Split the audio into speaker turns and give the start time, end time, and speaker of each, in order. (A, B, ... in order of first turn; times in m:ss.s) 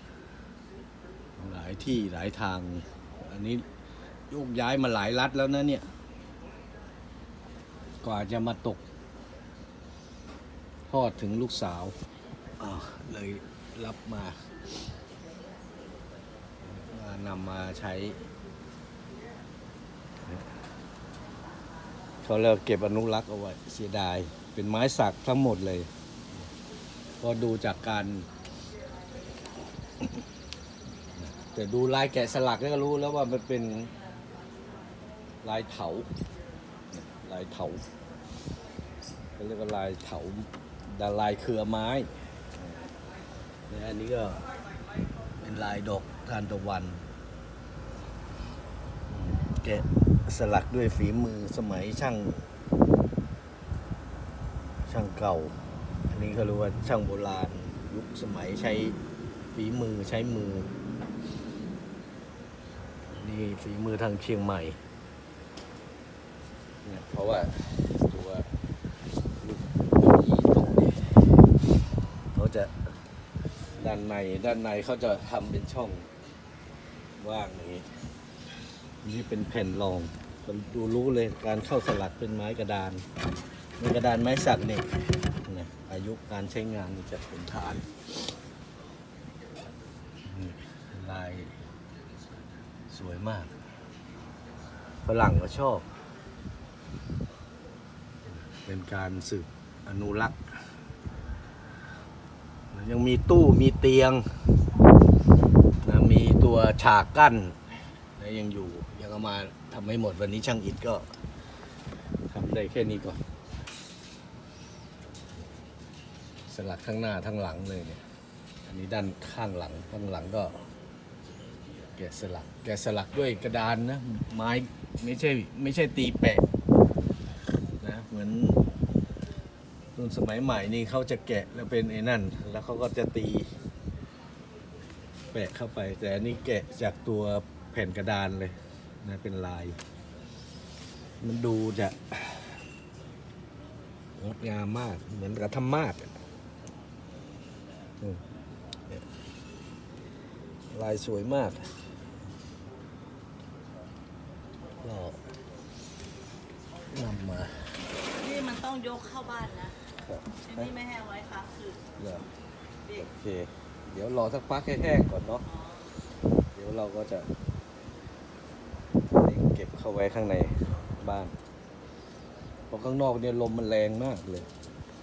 0:01.4-0:03.6 A
0:04.3-0:05.9 A
0:08.0-0:08.8 A
0:10.9-0:11.9 A
0:12.6-0:14.4 A
0:16.7-0:18.2 A
0:22.2-0:25.9 A
0:27.2-0:28.3 A
0:31.3-0:33.9 A
0:35.4-0:36.1 A
0:36.9-0:37.8 A
0:39.4-0:42.9 A
0:43.7-0:44.5 A
0:45.4-0:47.0 A
0:49.1-0:52.4 A
0:54.8-0:55.5 A
0:56.1-0:59.0 A
0:59.5-1:00.7 A
1:03.1-1:04.8 A
1:06.8-1:08.5 A
1:09.4-1:11.2 A
1:12.3-1:12.7 A
1:13.8-1:16.1 A
1:17.2-1:17.9 A
1:19.0-1:23.0 A
1:23.8-1:27.9 A
1:30.2-1:31.5 A
1:32.9-1:33.5 A
1:35.0-1:35.8 A
1:38.5-1:40.4 A
1:42.7-1:44.2 A
1:45.8-1:47.6 A
1:48.2-1:51.0 A
1:52.3-1:53.2 A
1:56.5-1:58.0 A
1:58.6-2:00.6 A
2:02.0-2:06.4 A
2:07.8-2:08.6 A
2:10.0-2:13.5 A
2:15.3-2:19.8 A
2:21.2-2:22.6 A
2:24.2-2:26.1 A
2:30.7-2:31.7 A
2:34.8-2:35.2 A
2:36.9-2:37.7 A
2:38.1-2:39.8 B
2:40.0-2:40.7 A
2:40.3-2:41.8 B
2:42.0-2:42.3 A
2:42.9-2:45.4 A
2:45.4-2:45.9 B
2:46.5-2:47.3 A
2:49.1-2:51.3 A
2:52.7-2:54.5 A